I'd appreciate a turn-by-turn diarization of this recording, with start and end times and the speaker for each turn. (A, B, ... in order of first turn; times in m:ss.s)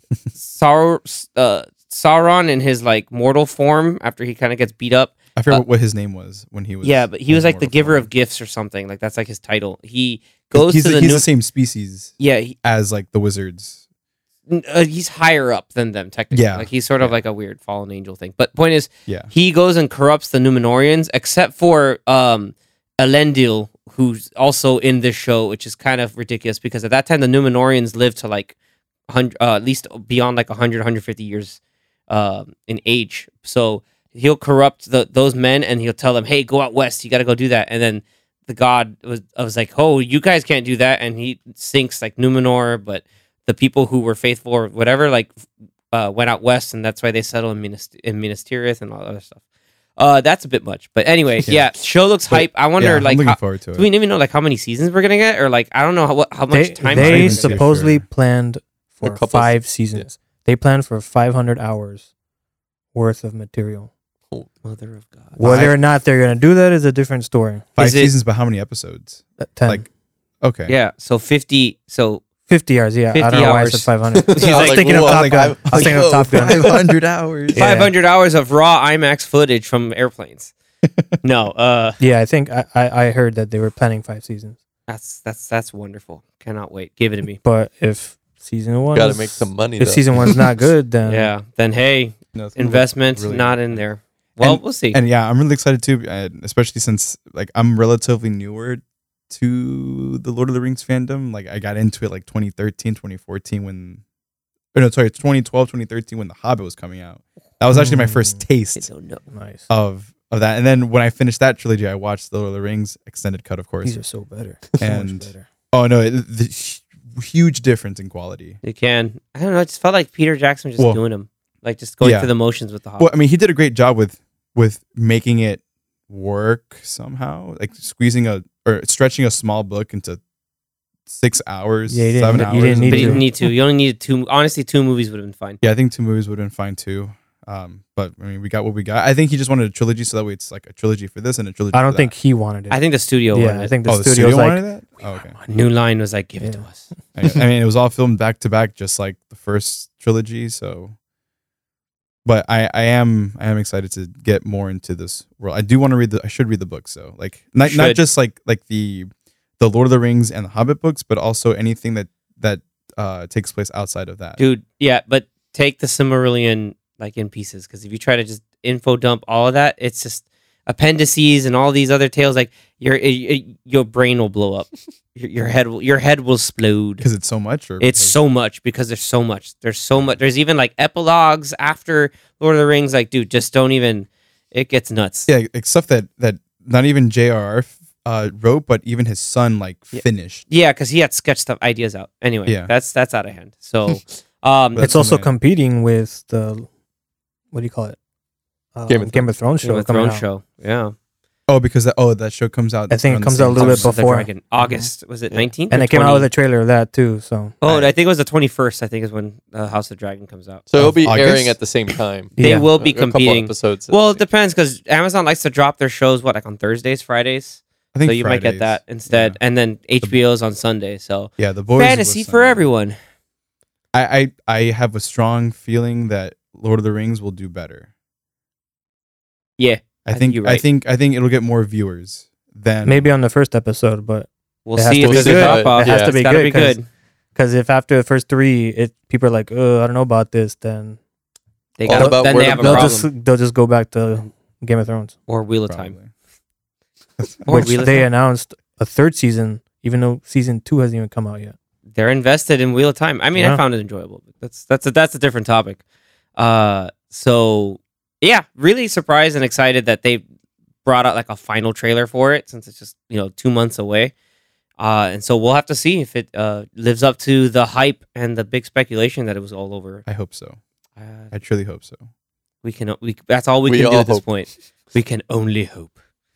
0:00.3-0:05.6 A
0:05.4-0:08.1 B
0:06.8-0:11.3 A
0:10.5-0:13.8 B
0:12.2-0:12.5 A
0:14.5-0:28.5 A
0:16.3-0:17.2 B
0:29.1-0:45.3 A
0:45.9-0:49.4 A
0:50.0-0:57.6 A
0:51.4-0:51.7 B
0:52.3-0:53.9 B
0:56.5-1:02.1 C
0:56.9-0:58.0 B
0:59.0-1:00.1 D
1:02.9-1:03.9 C
1:04.6-1:05.6 A
1:05.4-1:07.7 C
1:05.4-1:05.8 B
1:07.8-1:09.9 B
1:07.8-1:08.1 A
1:09.4-1:09.8 C
1:10.4-1:10.7 B
1:10.7-1:12.2 A
1:12.5-1:16.8 C
1:13.1-1:15.0 A
1:14.1-1:17.1 D
1:14.9-1:17.7 B
1:17.5-1:17.9 C
1:17.6-1:20.5 A
1:21.2-1:22.0 A
1:22.0-1:24.6 C
1:24.9-1:27.4 A
1:27.4-1:31.3 C
1:28.9-1:30.6 D
1:31.0-1:35.0 A
1:32.3-1:33.8 B
1:34.4-1:44.0 B
1:44.7-1:48.9 B
1:47.7-1:48.4 C
1:48.8-1:49.2 A
1:49.3-1:49.7 C
1:49.7-1:54.0 B
1:53.8-1:55.5 C
1:54.8-1:58.6 B
1:58.6-2:03.1 A
2:02.0-2:02.3 B
2:03.0-2:10.2 B
2:11.1-2:13.3 B
2:11.9-2:13.2 C
2:12.9-2:15.6 A
2:15.6-2:22.1 B
2:21.7-2:25.4 C
2:22.7-2:23.7 A
2:23.8-2:25.4 B
2:25.4-2:26.9 A
2:26.4-2:26.6 C
2:27.2-2:30.9 B
2:32.2-2:44.4 B
2:37.6-2:38.0 A
2:44.4-2:57.0 A
2:57.0-2:58.2 B
2:57.8-3:05.3 A
3:05.3-3:10.4 B
3:09.9-3:14.9 A
3:12.5-3:12.7 B
3:14.7-3:15.3 B
3:14.8-3:16.7 C
3:17.5-3:18.0 C
3:18.7-3:20.2 C
3:18.9-3:19.3 D
3:19.6-3:20.9 A
3:21.5-3:24.0 B
3:22.9-3:24.9 C
3:23.5-3:26.3 A
3:25.7-3:27.6 C
3:27.6-3:30.6 A
3:27.6-3:27.9 B
3:30.7-3:34.2 D
3:30.8-3:31.6 B
3:32.3-3:32.7 C
3:32.4-3:43.0 A
3:37.9-3:39.4 B
3:41.4-3:42.6 B
3:43.9-3:47.9 B
3:49.6-3:50.6 A
3:50.0-3:53.1 B
3:52.8-3:56.8 C
3:54.6-3:56.8 A
3:55.0-3:56.1 D
3:57.3-4:01.0 C
4:01.8-4:03.1 A
4:01.8-4:03.0 D
4:01.9-4:05.2 C
4:05.3-4:05.9 A
4:05.6-4:06.1 B
4:07.2-4:07.4 B
4:07.4-4:08.1 A
4:07.5-4:11.6 C
4:11.9-4:15.8 A
4:13.3-4:13.6 C
4:16.4-4:20.2 A
4:20.8-4:24.1 A
4:24.8-4:30.0 A
4:30.0-4:30.6 B
4:31.0-4:31.3 A
4:31.3-4:32.0 B
4:32.6-4:35.9 A
4:33.6-4:34.3 D